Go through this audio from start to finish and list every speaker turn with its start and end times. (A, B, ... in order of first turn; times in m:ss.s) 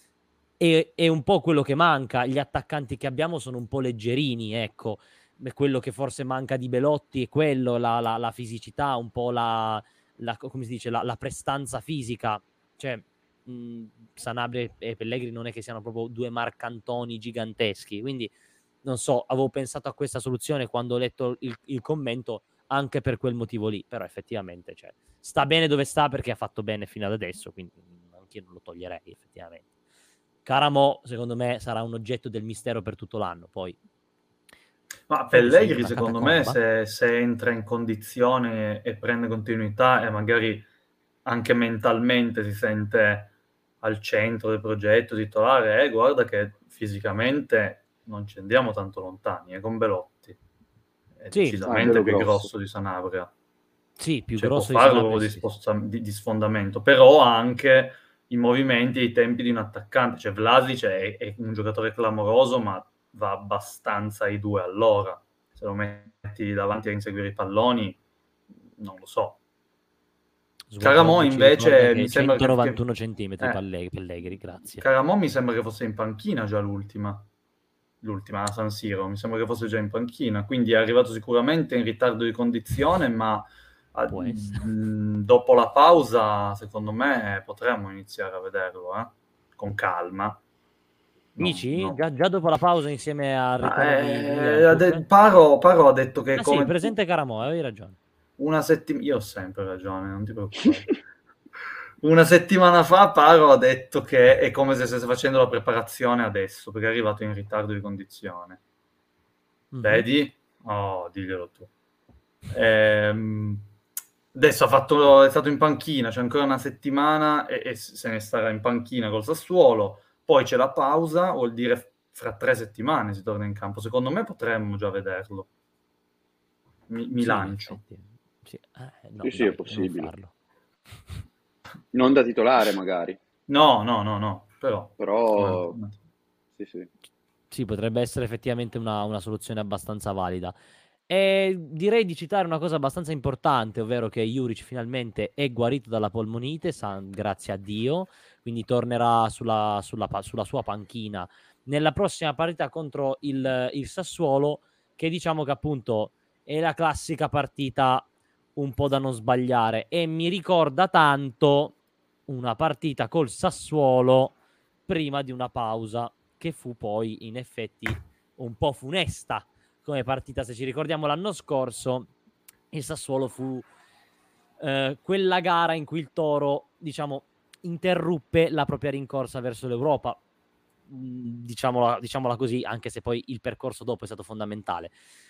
0:00.6-0:18.3 A
0:18.8-0:29.6 A
0:30.4-0:33.8 A
0:35.1-0:40.7 B
0:35.3-0:36.6 A
0:41.2-0:50.4 B
0:51.2-0:53.3 B
0:51.3-0:51.6 A
0:51.6-0:52.5 C
0:54.0-0:55.4 A
0:54.4-1:08.0 B
1:08.7-1:09.4 B
1:10.7-1:14.8 A
1:10.8-1:12.8 B
1:14.8-1:17.3 B
1:18.0-1:30.4 B
1:24.1-1:24.6 A
1:31.3-1:32.0 B
1:31.4-1:35.1 A
1:33.6-1:36.9 B
1:36.4-1:38.0 A
1:38.4-1:41.0 B
1:42.0-1:48.6 B
1:49.7-1:50.0 A
1:49.8-1:51.7 B
1:52.5-1:53.7 B
1:54.3-2:05.5 B
2:06.9-2:07.8 B
2:07.2-2:10.3 A
2:09.2-2:10.1 C
2:11.9-2:13.2 C
2:13.5-2:16.0 B
2:15.0-2:15.8 C
2:16.6-2:16.9 C
2:17.5-2:20.5 A
2:21.1-2:41.8 A
2:42.3-2:44.3 A
2:44.9-2:52.1 A
2:52.7-2:53.7 A
2:54.6-3:00.2 A
3:00.9-3:04.9 A